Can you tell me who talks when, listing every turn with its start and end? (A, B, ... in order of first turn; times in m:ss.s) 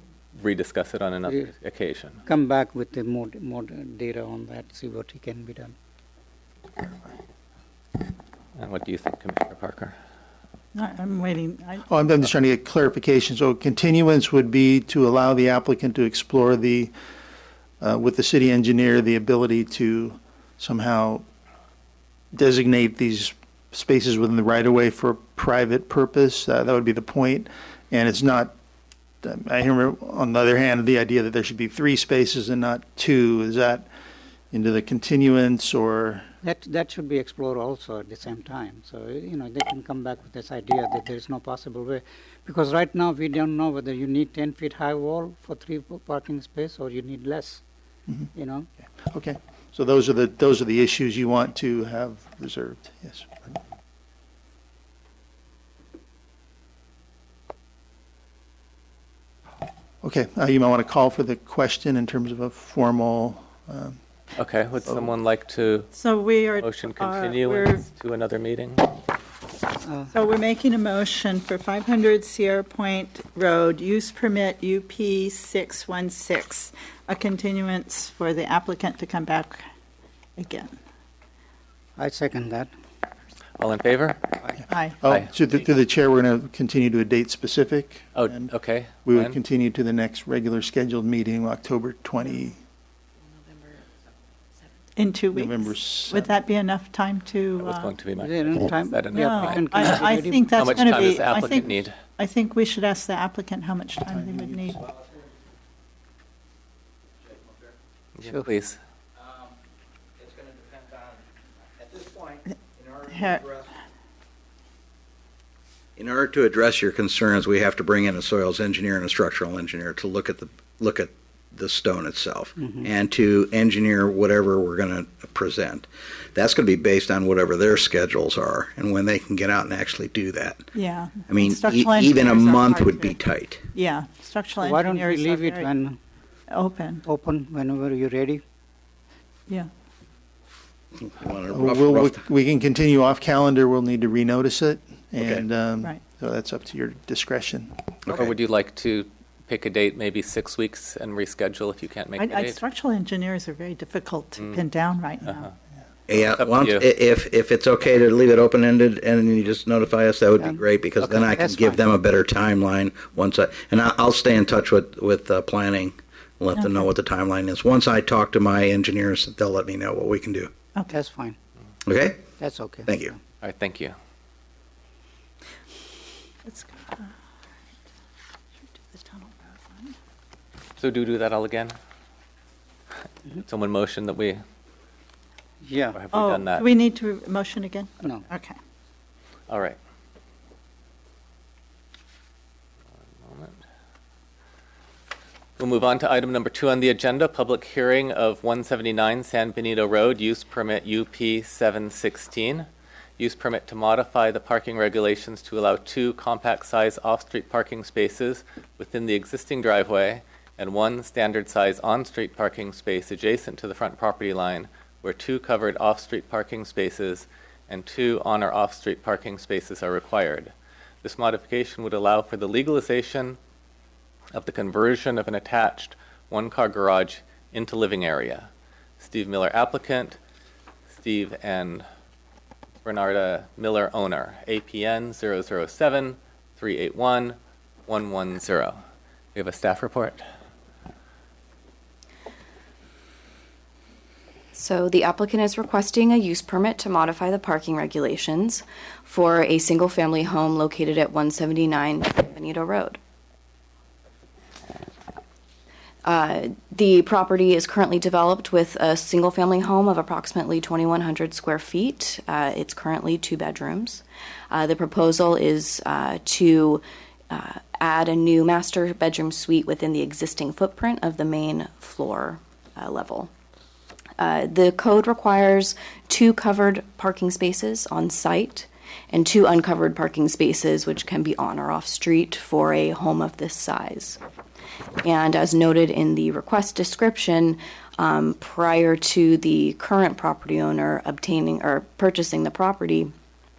0:00.3-0:02.2 A
0:02.2-0:05.7 B
0:08.6-0:09.9 A
0:10.7-0:11.8 C
0:11.9-0:16.9 D
0:17.8-0:21.2 D
0:22.3-0:28.5 D
0:29.2-0:33.9 D
0:34.5-0:36.3 D
0:36.4-0:47.6 B
0:48.4-0:48.7 B
0:48.9-0:53.6 D
1:00.0-1:04.0 D
1:04.4-1:05.9 A
1:05.9-1:07.9 C
1:06.6-1:08.9 A
1:09.8-1:10.1 B
1:10.1-1:19.6 C
1:20.4-1:20.7 C
1:22.0-1:22.7 B
1:23.6-1:24.2 A
1:24.7-1:25.0 C
1:25.0-1:28.5 D
1:28.1-1:29.4 A
1:29.0-1:32.6 D
1:35.0-1:37.9 C
1:35.3-1:36.3 D
1:37.6-1:41.9 A
1:38.2-1:40.7 B
1:39.2-1:44.8 C
1:44.1-1:44.7 D
1:47.4-1:47.7 E
1:48.2-1:48.8 A
1:48.2-1:48.5 B
1:49.2-1:49.4 E
1:50.2-1:51.1 E
1:51.8-1:53.7 E
1:53.1-1:53.4 C
1:56.0-2:10.6 E
2:02.6-2:02.9 B
2:10.7-2:13.2 C
2:11.3-2:13.6 E
2:13.7-2:15.7 C
2:14.6-2:16.0 B
2:16.5-2:17.0 C
2:17.0-2:18.4 B
2:21.0-2:22.2 E
2:21.5-2:27.7 D
2:28.1-2:32.6 A
2:32.2-2:35.5 C
2:36.1-2:50.5 E
2:36.4-2:36.9 A
2:40.4-2:41.8 B
2:50.9-2:51.4 B
2:51.8-2:52.2 E
2:52.4-2:53.2 B
2:52.8-2:53.1 E
2:53.4-2:53.9 A
2:56.4-2:57.1 C
2:58.7-2:59.9 C
3:00.8-3:01.7 A
3:03.3-3:04.4 A
3:05.6-3:06.0 B
3:05.9-3:06.6 A
3:06.1-3:08.6 C
3:09.5-3:09.8 A
3:13.3-3:13.5 A
3:15.6-3:22.7 A
3:23.2-3:43.4 A
3:44.3-3:50.2 A
3:51.0-3:51.8 A
3:52.8-3:58.8 A
3:59.3-4:00.2 A
4:04.5-4:13.0 F
4:16.0-4:33.3 F
4:34.2-4:44.2 F
4:45.0-4:53.1 F